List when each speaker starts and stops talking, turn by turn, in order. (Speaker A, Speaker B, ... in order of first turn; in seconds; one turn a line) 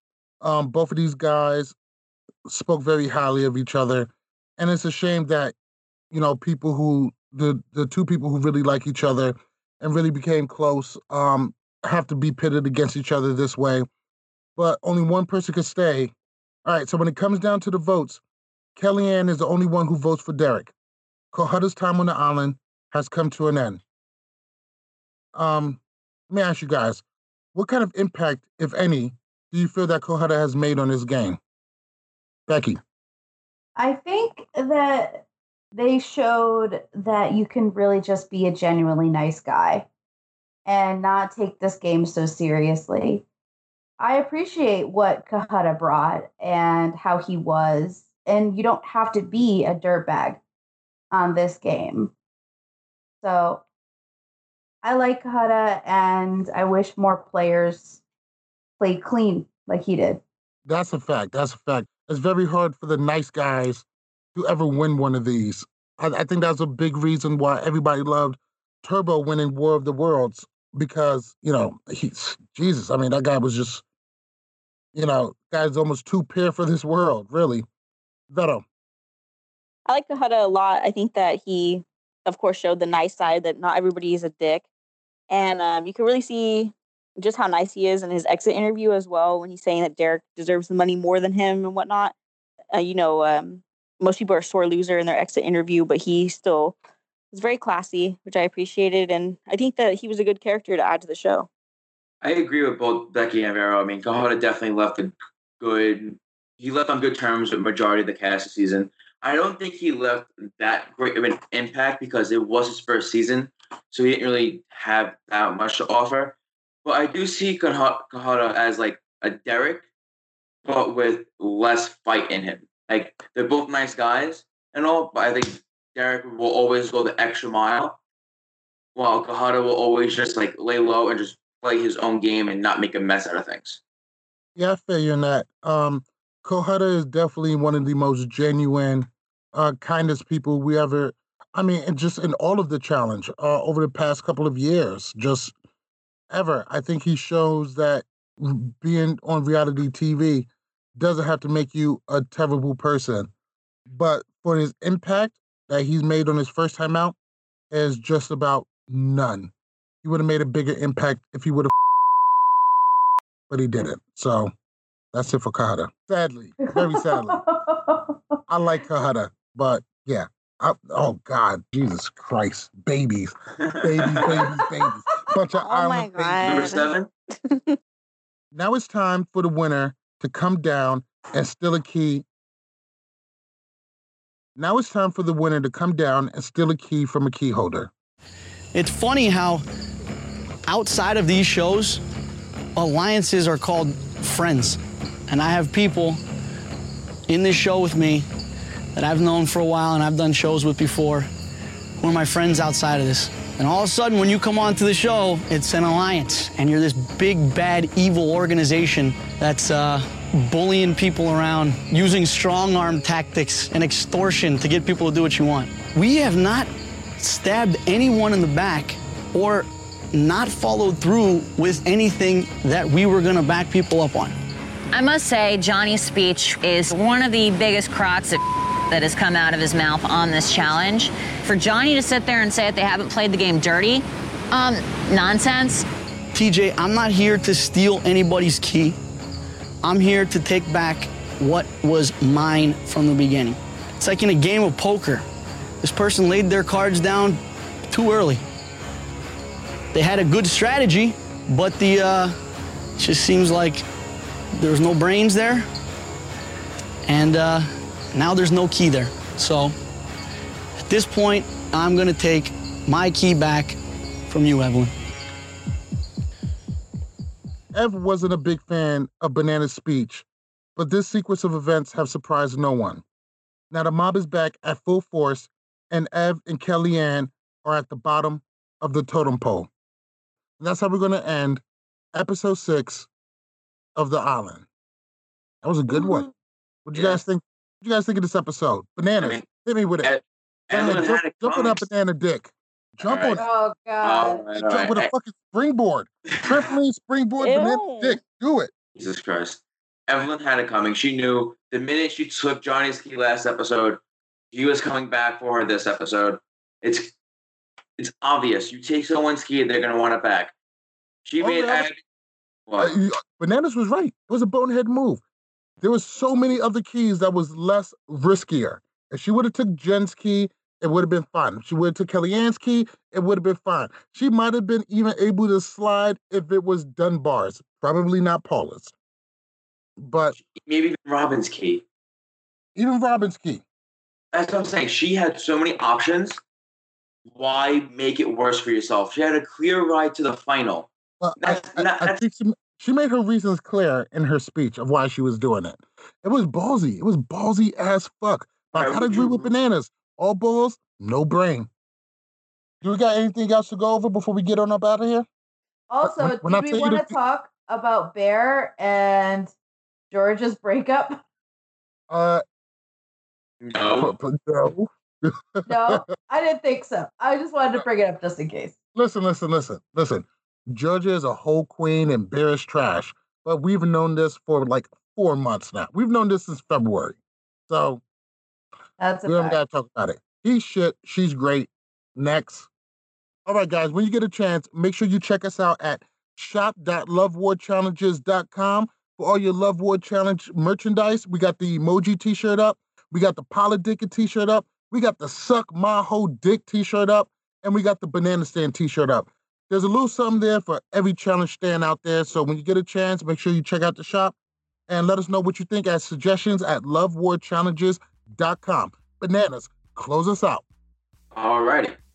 Speaker A: 0.4-1.8
Speaker A: 2.5-5.5
Speaker A: 6.1-13.9
Speaker A: 14.6-16.1
Speaker A: 16.6-18.2
Speaker A: 18.8-20.7
Speaker A: 21.3-23.8
Speaker A: 25.3-27.0
Speaker A: 27.5-31.4
Speaker A: 32.5-32.8
Speaker B: 33.8-39.9
Speaker B: 40.6-43.2
Speaker B: 44.0-50.4
Speaker B: 51.1-52.1
Speaker B: 53.2-53.6
Speaker B: 54.8-58.0
Speaker B: 58.8-60.2
Speaker A: 60.6-73.8
Speaker A: 74.9-77.7
Speaker A: 78.3-78.6
Speaker C: 79.9-84.7
Speaker C: 85.3-92.1
Speaker C: 92.7-96.8
Speaker C: 97.3-101.5
Speaker D: 102.2-119.9
Speaker D: 120.6-128.0
Speaker D: 128.9-133.8
Speaker A: 134.6-145.5
Speaker A: 146.3-153.3
Speaker A: 153.9-157.2
Speaker A: 157.7-159.5
Speaker A: 160.0-161.7
Speaker A: 163.5-164.5
Speaker A: 165.1-167.4
Speaker B: 166.6-168.2
Speaker A: 168.5-176.8
Speaker D: 173.6-174.4
Speaker C: 175.5-177.8
Speaker D: 176.4-177.1
Speaker A: 178.5-182.2
Speaker A: 184.6-187.9
Speaker E: 188.7-189.6
Speaker E: 190.7-192.0
Speaker E: 192.8-196.2
Speaker E: 197.3-198.3
Speaker E: 198.9-201.3
Speaker E: 202.0-224.3
Speaker F: 224.9-235.8
Speaker E: 236.3-239.0
Speaker E: 239.8-245.2
Speaker E: 245.8-248.4
Speaker E: 249.9-252.3
Speaker E: 253.0-253.8
Speaker E: 254.6-255.7
Speaker E: 257.1-259.7
Speaker E: 260.8-264.9
Speaker A: 267.7-273.0
Speaker A: 273.7-279.7
Speaker A: 280.6-281.6
Speaker A: 282.1-283.1
Speaker A: 283.9-284.7
Speaker A: 285.6-286.3
Speaker A: 286.9-290.1
Speaker D: 286.9-287.2
Speaker D: 290.0-291.9
Speaker A: 290.7-293.4
Speaker D: 293.0-293.4
Speaker B: 293.3-294.4
Speaker D: 294.0-295.1
Speaker A: 294.6-298.7
Speaker D: 296.4-296.7
Speaker C: 297.4-298.2
Speaker D: 298.9-304.0
Speaker D: 304.5-307.1
Speaker D: 308.0-310.5
Speaker D: 311.2-312.0
Speaker A: 311.4-311.9
Speaker D: 312.7-312.9
Speaker A: 312.8-315.2
Speaker A: 315.8-328.9
Speaker A: 330.0-330.4
Speaker D: 330.4-331.8
Speaker A: 332.7-333.6
Speaker D: 334.3-336.4
Speaker D: 337.3-342.2
Speaker A: 341.2-351.7
Speaker D: 348.7-349.5
Speaker A: 352.8-355.2
Speaker B: 355.9-359.5
Speaker A: 356.0-357.1
Speaker B: 360.1-361.2
Speaker A: 362.1-362.4
Speaker D: 363.6-364.1
Speaker A: 364.0-366.0
Speaker B: 365.6-368.7
Speaker A: 368.9-378.0
Speaker B: 379.0-379.6
Speaker A: 379.2-382.7
Speaker A: 383.4-404.3
Speaker A: 404.9-410.6
Speaker D: 411.3-411.9